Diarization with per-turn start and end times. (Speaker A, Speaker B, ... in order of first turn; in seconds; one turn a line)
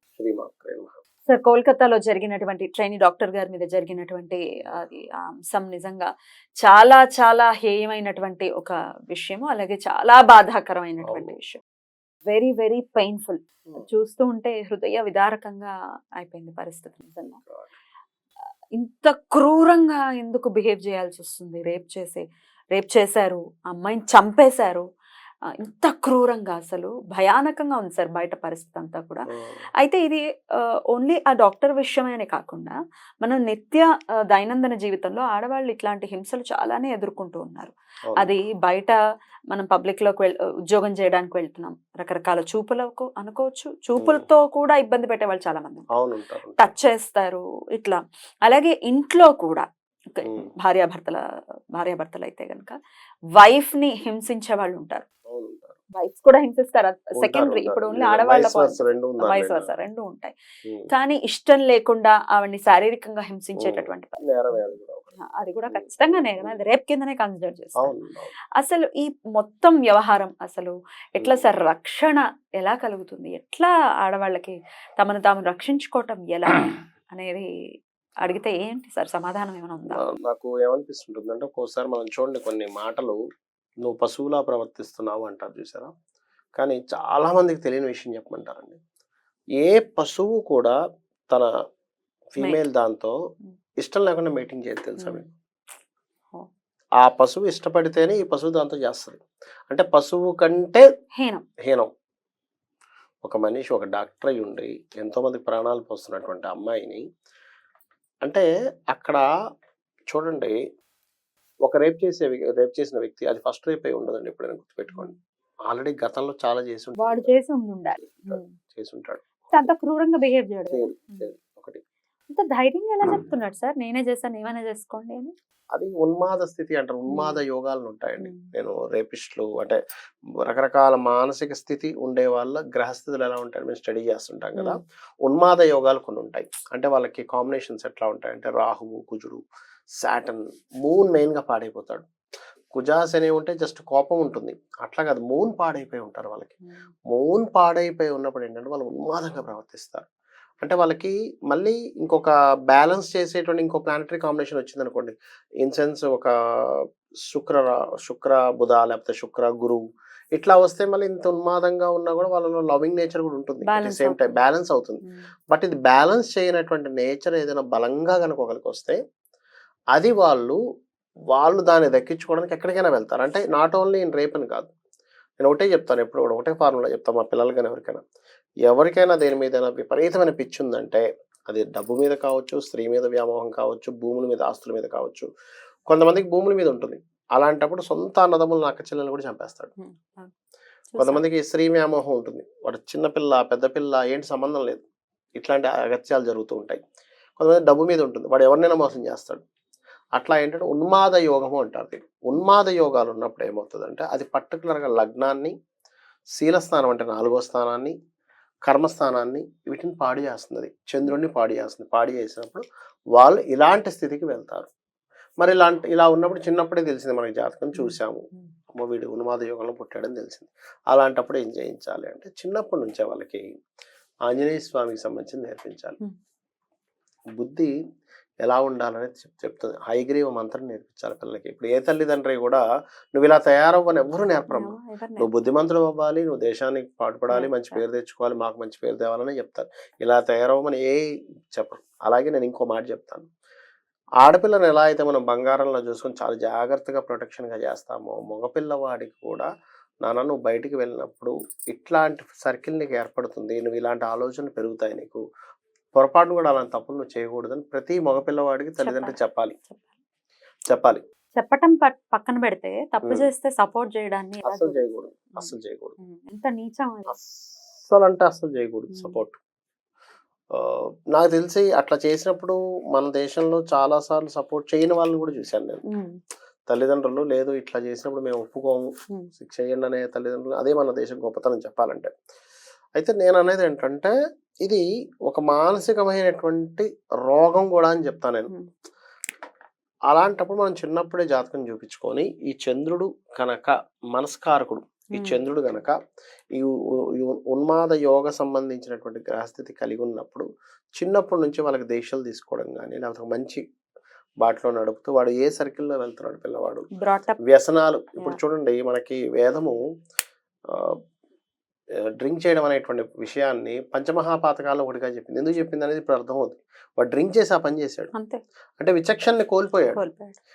Speaker A: 0.2-0.9
Speaker B: 1.3-6.1
Speaker B: 6.6-11.6
Speaker A: 11.0-11.4
Speaker B: 12.3-17.4
Speaker A: 17.4-17.7
Speaker B: 18.7-22.2
Speaker B: 22.7-24.8
Speaker B: 25.6-29.3
Speaker A: 29.3-29.6
Speaker B: 29.8-30.2
Speaker B: 30.9-39.0
Speaker A: 38.1-38.4
Speaker B: 39.5-45.9
Speaker A: 44.0-44.2
Speaker A: 45.9-46.7
Speaker B: 46.6-51.2
Speaker B: 51.7-52.8
Speaker B: 53.4-55.0
Speaker A: 55.3-55.8
Speaker B: 56.0-60.3
Speaker A: 57.2-59.7
Speaker A: 60.6-60.9
Speaker B: 60.9-64.6
Speaker A: 63.6-66.6
Speaker B: 65.2-67.9
Speaker A: 67.8-68.3
Speaker B: 68.5-77.5
Speaker A: 71.2-71.5
Speaker B: 78.2-80.0
Speaker A: 79.9-83.2
Speaker A: 83.8-85.9
Speaker A: 86.5-88.8
Speaker A: 89.6-90.8
Speaker A: 92.3-93.1
Speaker A: 93.8-95.2
Speaker B: 95.0-95.3
Speaker A: 97.0-100.8
Speaker B: 101.2-101.4
Speaker A: 103.2-107.0
Speaker A: 108.2-109.2
Speaker A: 110.1-110.6
Speaker A: 111.6-115.1
Speaker A: 115.7-117.3
Speaker B: 117.0-118.5
Speaker A: 118.0-119.3
Speaker B: 119.5-121.2
Speaker A: 120.7-121.8
Speaker B: 122.3-125.3
Speaker A: 125.7-129.8
Speaker B: 127.1-127.4
Speaker B: 128.2-128.5
Speaker A: 130.4-139.4
Speaker A: 140.0-142.1
Speaker A: 142.7-146.6
Speaker A: 147.1-150.1
Speaker A: 150.6-156.3
Speaker A: 157.3-159.8
Speaker A: 160.3-169.0
Speaker B: 163.6-164.4
Speaker A: 169.9-170.6
Speaker A: 171.3-174.7
Speaker A: 175.4-178.0
Speaker A: 178.7-185.3
Speaker A: 185.9-189.7
Speaker B: 189.8-190.3
Speaker B: 190.9-191.2
Speaker A: 191.0-194.8
Speaker A: 195.4-196.8
Speaker A: 197.4-199.4
Speaker A: 200.2-205.5
Speaker A: 206.4-207.9
Speaker A: 208.6-212.6
Speaker A: 213.2-214.7
Speaker A: 215.4-223.5
Speaker B: 217.7-218.5
Speaker A: 224.3-226.0
Speaker A: 227.3-227.7
Speaker A: 228.4-232.6
Speaker A: 233.1-241.0
Speaker B: 234.5-235.3
Speaker B: 237.3-237.8
Speaker A: 241.5-243.3
Speaker A: 244.2-249.5
Speaker A: 250.0-255.2
Speaker A: 255.9-259.5
Speaker B: 258.8-259.1
Speaker A: 260.7-261.0
Speaker B: 261.4-267.1
Speaker A: 264.4-265.9
Speaker A: 267.1-269.4
Speaker B: 268.9-269.2
Speaker A: 270.5-275.8
Speaker B: 275.9-276.1
Speaker A: 276.7-282.1
Speaker A: 283.0-284.1
Speaker A: 284.6-288.5
Speaker A: 290.1-295.9
Speaker B: 295.1-295.4
Speaker A: 296.5-303.6
Speaker A: 304.4-306.9
Speaker B: 306.9-307.4
Speaker A: 307.4-309.8
Speaker A: 310.7-311.0
Speaker A: 312.2-318.1
Speaker B: 318.1-318.4
Speaker A: 318.8-320.0
Speaker B: 319.9-320.4